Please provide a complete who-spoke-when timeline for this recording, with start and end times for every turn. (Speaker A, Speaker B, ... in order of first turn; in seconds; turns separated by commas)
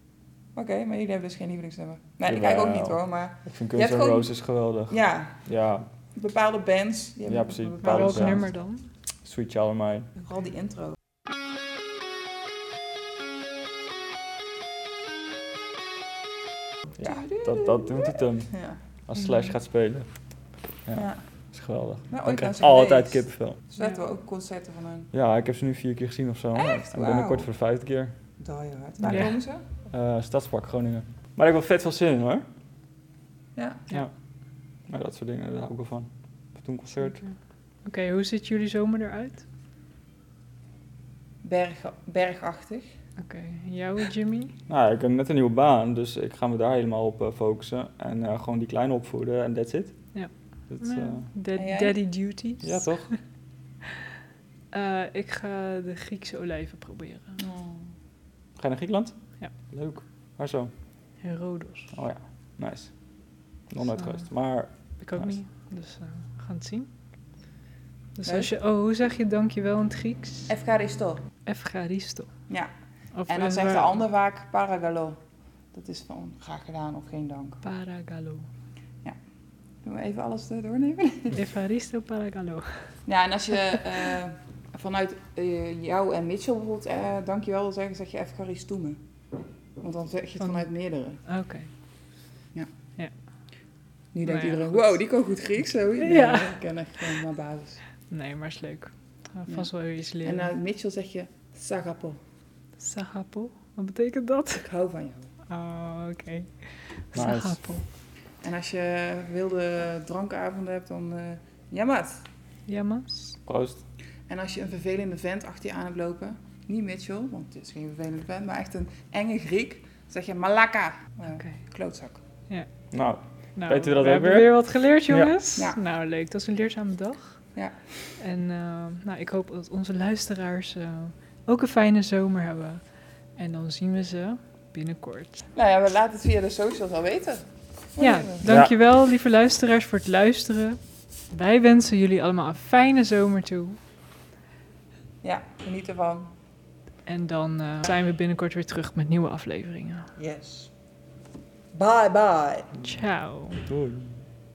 Speaker A: 0.5-4.3, Speaker B: 2.2-5.9, Speaker A: 4.9-5.4, Speaker A: 6.1-8.4, Speaker B: 7.3-8.5, Speaker C: 7.8-8.9, Speaker B: 9.2-10.1, Speaker A: 10.2-11.0, Speaker B: 17.0-18.5, Speaker A: 17.0-18.8, Speaker B: 19.1-20.1, Speaker B: 20.9-23.6, Speaker A: 20.9-21.2, Speaker A: 22.1-25.1, Speaker B: 25.1-28.1, Speaker A: 26.5-27.5, Speaker A: 28.4-29.6, Speaker C: 29.0-29.3, Speaker B: 29.9-32.4, Speaker A: 33.5-33.9, Speaker B: 34.9-37.2, Speaker C: 37.0-37.3, Speaker C: 37.8-39.4, Speaker A: 41.4-42.9, Speaker C: 43.2-44.5, Speaker B: 44.7-50.0, Speaker C: 50.1-53.1, Speaker B: 50.7-51.3, Speaker A: 51.5-52.0, Speaker B: 52.6-53.1, Speaker C: 54.7-57.4, Speaker A: 57.4-57.9, Speaker B: 58.6-60.7, Speaker C: 61.2-61.9, Speaker B: 61.9-63.0, Speaker B: 63.7-65.4, Speaker C: 64.0-64.3, Speaker C: 65.0-66.9, Speaker C: 68.2-70.5, Speaker A: 68.2-68.5, Speaker A: 70.5-71.2, Speaker C: 71.5-72.3, Speaker C: 73.1-73.9, Speaker A: 73.3-75.2, Speaker A: 75.7-77.6, Speaker C: 77.6-78.5, Speaker A: 79.8-81.4, Speaker C: 81.3-82.9, Speaker A: 83.0-89.0, Speaker A: 89.8-91.2, Speaker C: 90.4-90.6, Speaker C: 91.2-91.7, Speaker A: 94.1-97.8, Speaker C: 94.2-94.8, Speaker C: 96.0-96.6, Speaker C: 98.1-100.5, Speaker A: 99.5-102.2, Speaker C: 102.8-104.7, Speaker A: 104.6-105.3, Speaker C: 105.5-107.8, Speaker B: 107.1-107.6, Speaker A: 108.4-112.3, Speaker C: 112.7-113.4, Speaker B: 113.5-113.8, Speaker A: 114.3-122.2, Speaker B: 122.9-124.5, Speaker C: 123.5-127.4, Speaker B: 125.1-125.3, Speaker A: 127.5-128.0, Speaker C: 128.2-132.8, Speaker C: 133.3-135.4, Speaker A: 135.5-138.5, Speaker C: 138.0-140.8, Speaker B: 138.4-138.7, Speaker C: 141.3-143.8, Speaker A: 145.2-146.3, Speaker C: 147.1-150.1, Speaker A: 150.2-150.7, Speaker A: 151.7-152.7, Speaker C: 152.8-153.6, Speaker B: 153.6-154.2